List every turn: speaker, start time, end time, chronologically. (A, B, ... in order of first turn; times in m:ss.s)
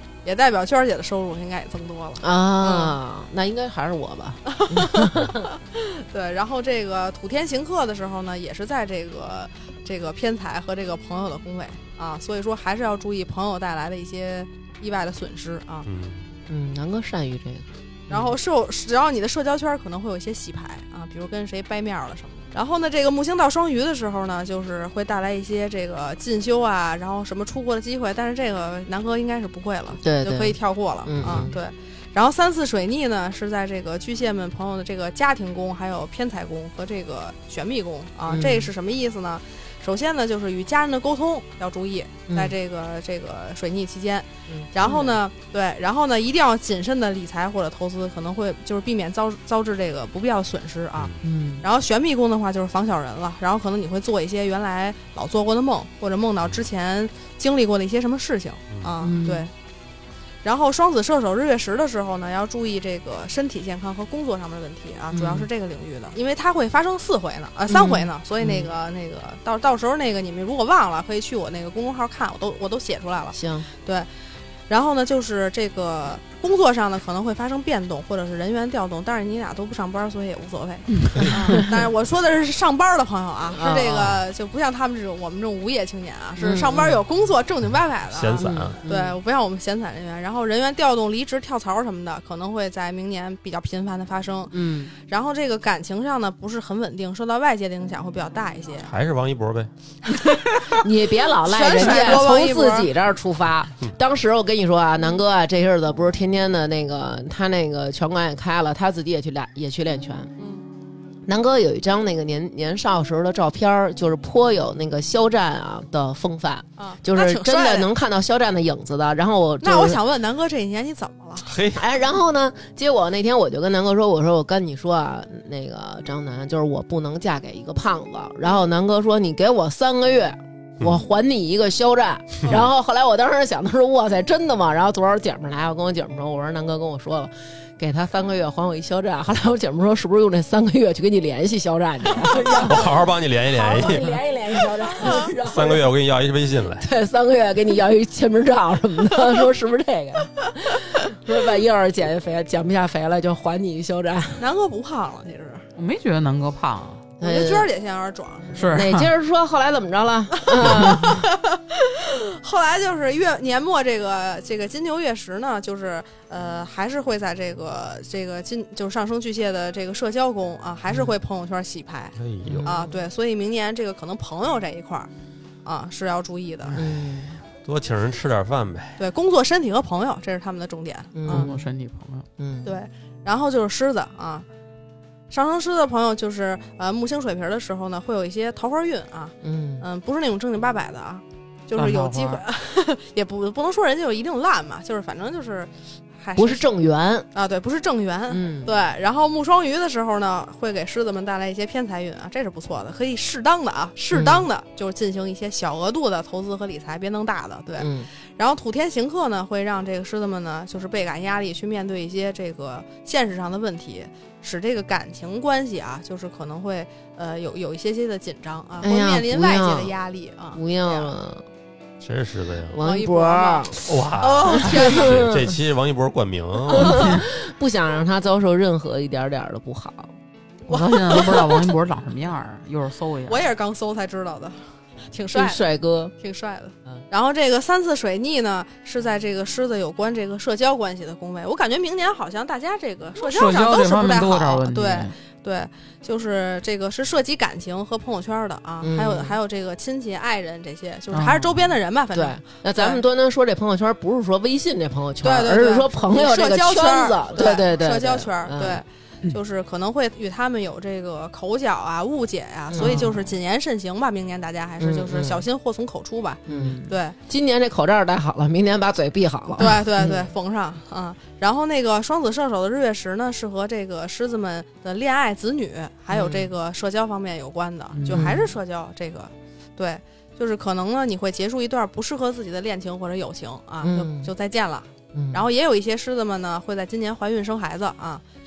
0:00.2-0:03.0 A
0:02.2-0:05.4 B
0:04.4-0:15.9 A
0:15.8-0:16.2 C
0:16.5-0:18.3 B
0:18.1-0:59.5 A
0:30.0-0:31.5 B
0:38.3-0:38.7 B
0:42.3-0:42.5 B
0:44.5-0:45.2 B
0:51.2-0:51.6 B
0:58.7-0:59.0 C
0:59.0-0:59.5 B
1:00.4-1:14.1 A
1:05.1-1:05.5 B
1:07.7-1:08.7 B
1:13.3-1:13.6 B
1:14.7-1:38.9 A
1:23.6-1:24.2 B
1:26.4-1:27.0 B
1:28.1-1:28.8 C
1:28.4-1:29.2 B
1:34.5-1:34.9 B
1:38.8-1:39.7 C
1:40.1-1:40.6 A
1:40.8-1:50.3 B
1:41.4-1:42.9 A
1:50.4-1:50.6 A
1:51.2-2:00.0 B
1:56.8-1:57.9 A
1:59.6-2:01.5 A
2:01.4-2:01.8 C
2:01.7-2:25.9 B
2:22.5-2:24.2 C
2:24.9-2:25.3 A
2:25.4-2:26.9 C
2:26.8-2:34.4 B
2:34.4-2:35.7 A
2:35.8-2:37.0 D
2:37.2-2:37.7 B
2:37.2-2:38.8 A
2:38.6-2:39.1 D
2:38.7-2:41.2 B
2:40.4-2:55.1 A
2:52.2-2:52.8 C
2:52.4-2:52.9 B
2:55.6-2:56.8 A
2:56.7-2:57.4 B
2:57.6-2:59.0 C
2:59.0-3:01.5 A
3:01.1-3:01.6 B
3:01.3-3:02.2 D
3:02.4-3:02.7 B
3:02.6-3:04.4 A
3:05.3-3:16.6 A
3:09.4-3:09.8 B
3:11.8-3:12.4 D
3:16.4-3:17.3 B
3:17.3-3:41.1 A
3:18.3-3:18.7 B
3:24.1-3:24.4 B
3:27.8-3:28.1 B
3:38.8-3:39.9 B
3:40.5-3:41.4 B
3:42.0-3:42.8 C
3:42.7-3:43.8 B
3:42.8-3:45.2 A
3:43.8-3:47.2 C
3:44.6-3:45.5 B
3:46.7-3:50.1 B
3:50.6-3:51.7 A
3:50.7-3:53.4 D
3:53.3-3:55.6 A
3:55.3-3:56.1 B
3:56.2-4:13.0 A
4:03.2-4:05.1 D
4:08.8-4:09.3 B
4:11.1-4:11.6 D
4:12.1-4:18.8 B
4:15.2-4:27.2 A
4:22.7-4:23.1 B
4:22.8-4:23.1 D
4:24.8-4:25.4 B
4:26.5-4:30.2 B
4:29.6-4:48.2 A
4:36.1-4:36.5 B
4:37.9-4:38.3 D
4:38.1-4:38.4 B
4:43.8-4:44.3 B
4:45.1-4:45.4 B